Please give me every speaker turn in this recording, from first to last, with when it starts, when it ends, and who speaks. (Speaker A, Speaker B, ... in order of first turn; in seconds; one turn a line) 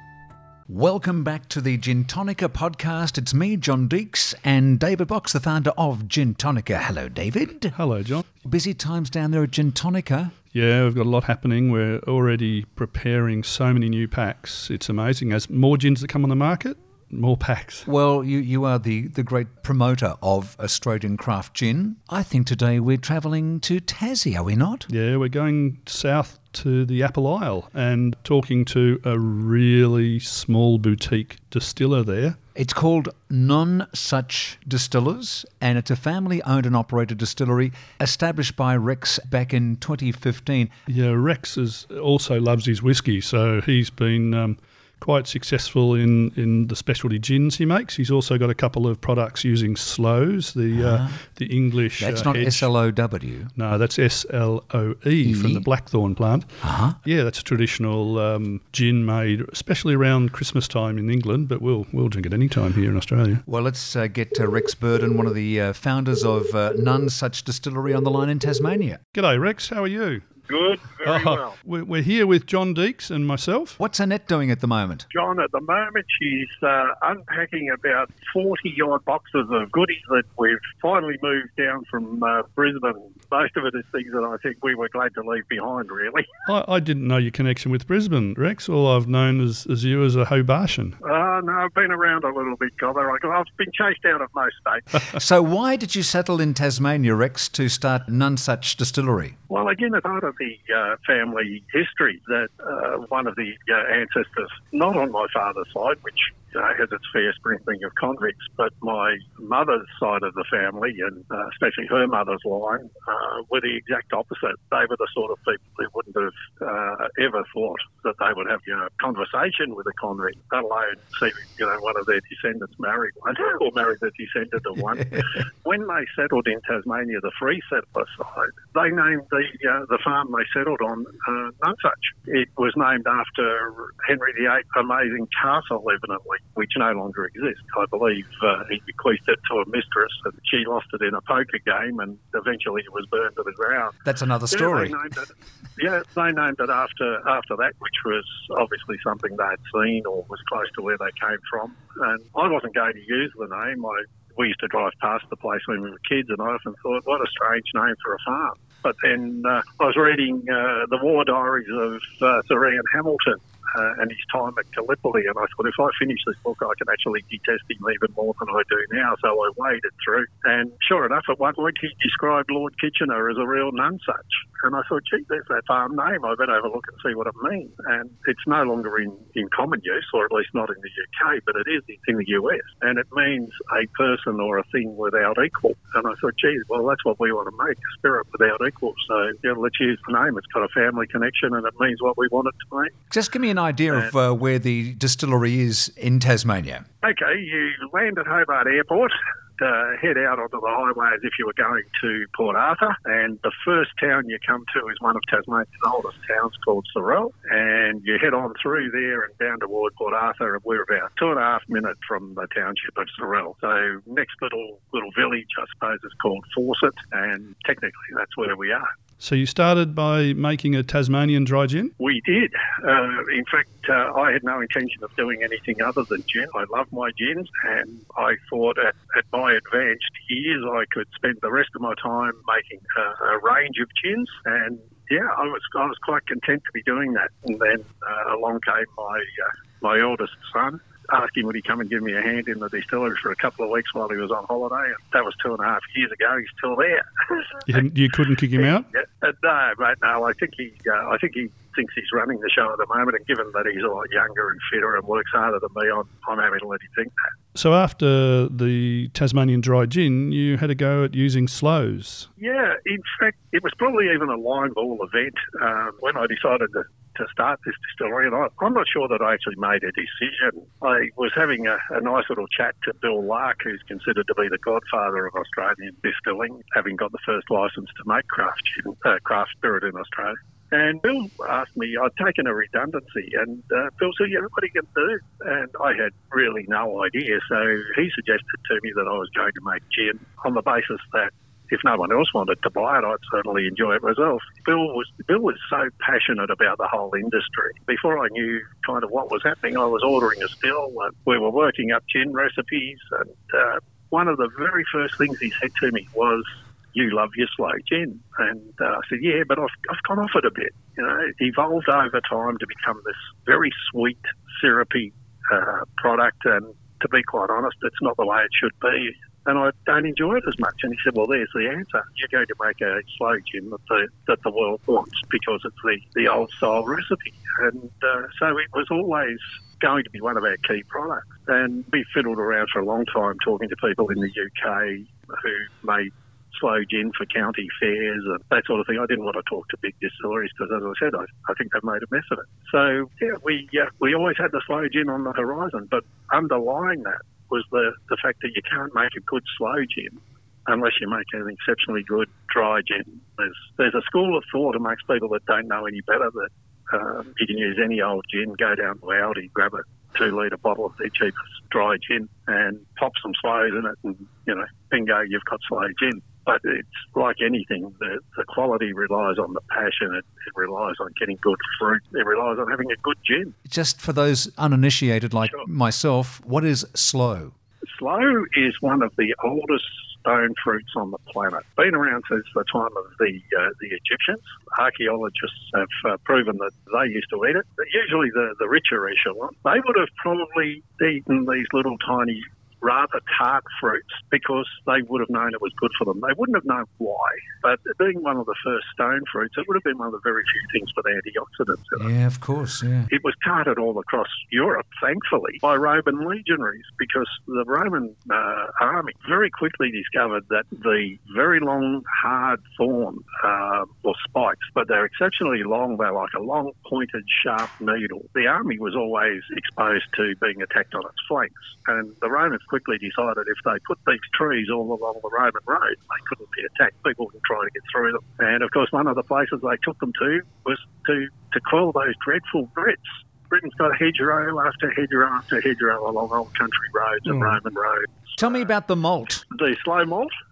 Speaker A: 0.7-7.7
Speaker B: 7.7-8.2
Speaker A: 8.4-10.3
Speaker B: 10.5-17.9
Speaker A: 17.9-24.9
Speaker B: 24.9-32.4
Speaker A: 32.5-40.7
Speaker B: 40.9-52.7
Speaker A: 50.7-51.1
Speaker A: 52.0-53.5
Speaker B: 53.5-56.5
Speaker A: 55.2-55.6
Speaker A: 56.6-57.0
Speaker B: 57.0-63.4
Speaker A: 63.5-69.0
Speaker B: 69.1-70.2
Speaker C: 70.5-71.5
Speaker B: 71.0-73.8
Speaker A: 73.8-75.0
Speaker C: 75.1-86.3
Speaker B: 86.5-91.0
Speaker C: 91.0-95.1
Speaker A: 95.1-99.3
Speaker C: 99.5-143.9
Speaker A: 144.0-145.0
Speaker C: 144.5-192.9
Speaker A: 193.1-196.8
Speaker C: 197.0-218.9
Speaker B: 219.2-221.9
Speaker C: 222.0-247.6
Speaker B: 247.7-248.9
Speaker C: 248.6-257.1
Speaker B: 257.5-262.3
Speaker C: 262.4-373.5
Speaker A: 373.6-377.5
Speaker C: 377.9-402.1
Speaker A: 402.0-403.1
Speaker C: 403.1-438.4
Speaker B: 437.3-437.6
Speaker A: 438.4-439.4
Speaker C: 439.5-440.3